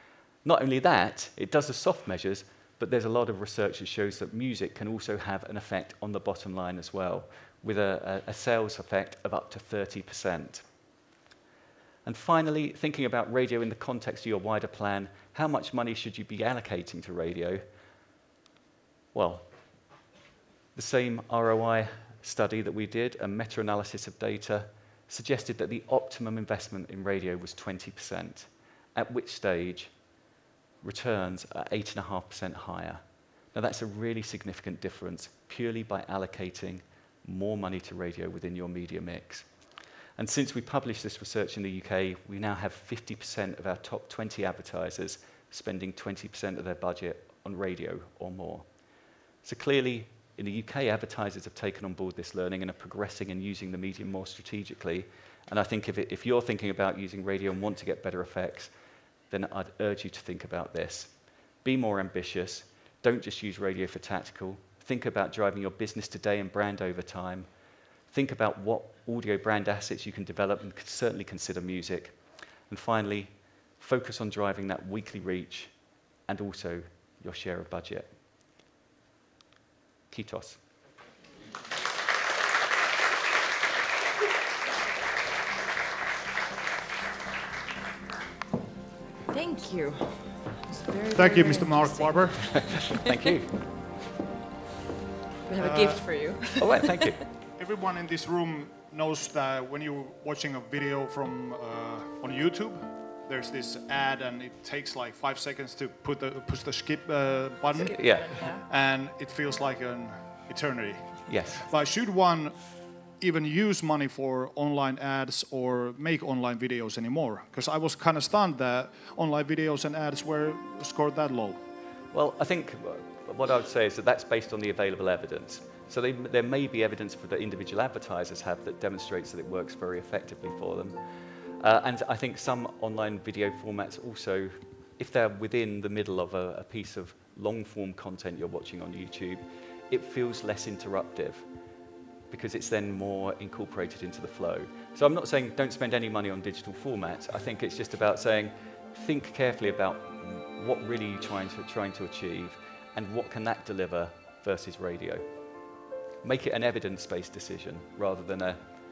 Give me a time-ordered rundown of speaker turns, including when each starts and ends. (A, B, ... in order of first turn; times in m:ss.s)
0:00.4-0:10.6 A
0:12.0-0:17.6 A
0:19.1-0:19.5 A
0:20.8-0:29.9 A
0:30.8-0:33.0 A
0:33.5-0:39.5 A
0:40.2-0:48.7 A
0:49.4-0:58.7 A
0:59.3-1:01.1 A
1:01.6-1:07.5 A
1:08.1-1:12.2 A
1:12.7-1:15.7 A
1:16.3-1:18.1 A
1:20.1-1:20.6 A
1:29.3-1:33.3 B
1:31.1-1:32.7 C
1:32.5-1:33.7 A
1:35.5-1:37.1 B
1:35.6-1:36.0 C
1:36.6-1:37.2 A
1:37.6-1:52.6 C
1:47.8-1:48.6 B
1:47.9-1:48.4 A
1:51.3-1:51.7 A
1:53.2-2:01.6 C
2:02.1-2:11.0 A
2:11.6-2:21.4 A
2:22.3-2:35.3 A
2:36.2-2:38.7 A